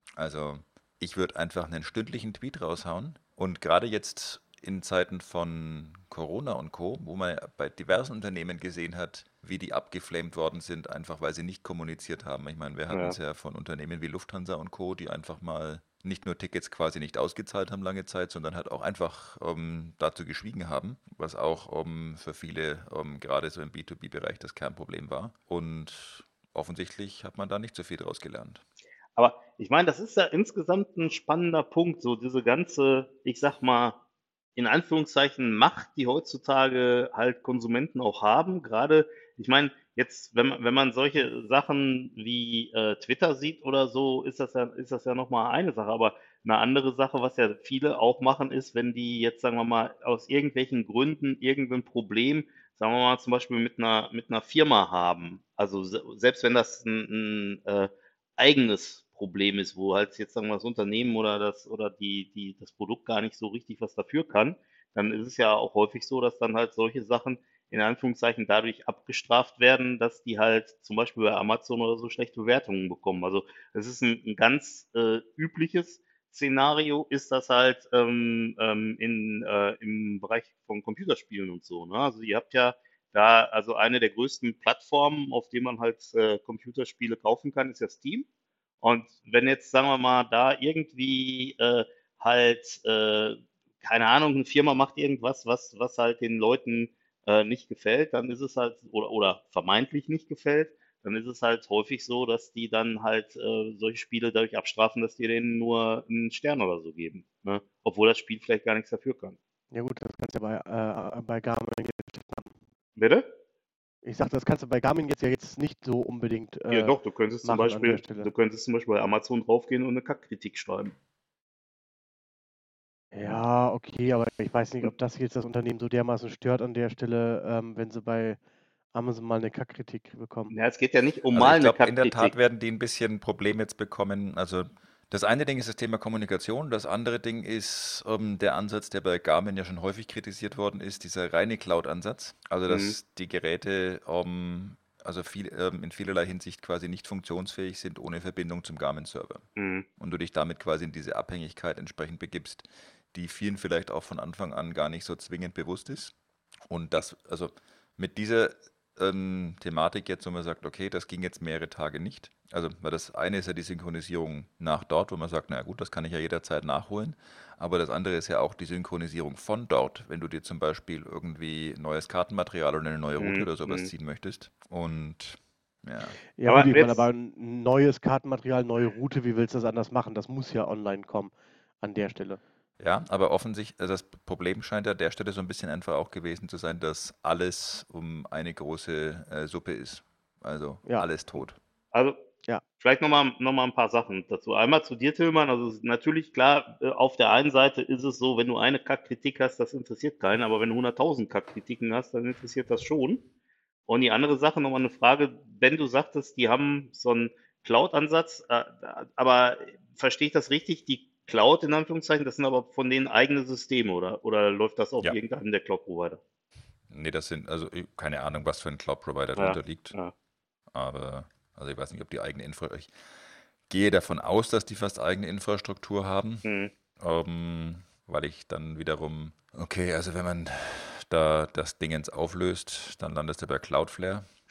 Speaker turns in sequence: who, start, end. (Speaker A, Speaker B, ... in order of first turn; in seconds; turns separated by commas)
Speaker A: 0.2-28.6, Speaker B: 12.9-13.2, Speaker B: 29.2-34.0, Speaker B: 34.6-88.3, Speaker B: 88.8-109.4, Speaker C: 109.7-112.5, Speaker B: 113.0-113.3, Speaker C: 114.0-118.3, Speaker B: 116.7-120.9, Speaker C: 123.1-128.4, Speaker C: 128.9-130.5, Speaker B: 130.5-132.3, Speaker A: 131.3-149.4, Speaker B: 142.7-143.0, Speaker B: 149.6-149.9, Speaker A: 150.0-156.2, Speaker A: 156.7-176.2, Speaker B: 173.2-173.9, Speaker C: 176.4-182.4, Speaker B: 176.4-177.1, Speaker A: 182.8-191.6, Speaker B: 192.8-203.2, Speaker B: 203.9-216.2, Speaker A: 216.9-219.9, Speaker B: 219.4-220.1, Speaker A: 220.7-222.9, Speaker A: 223.7-226.4, Speaker B: 226.4-226.7, Speaker A: 227.0-234.3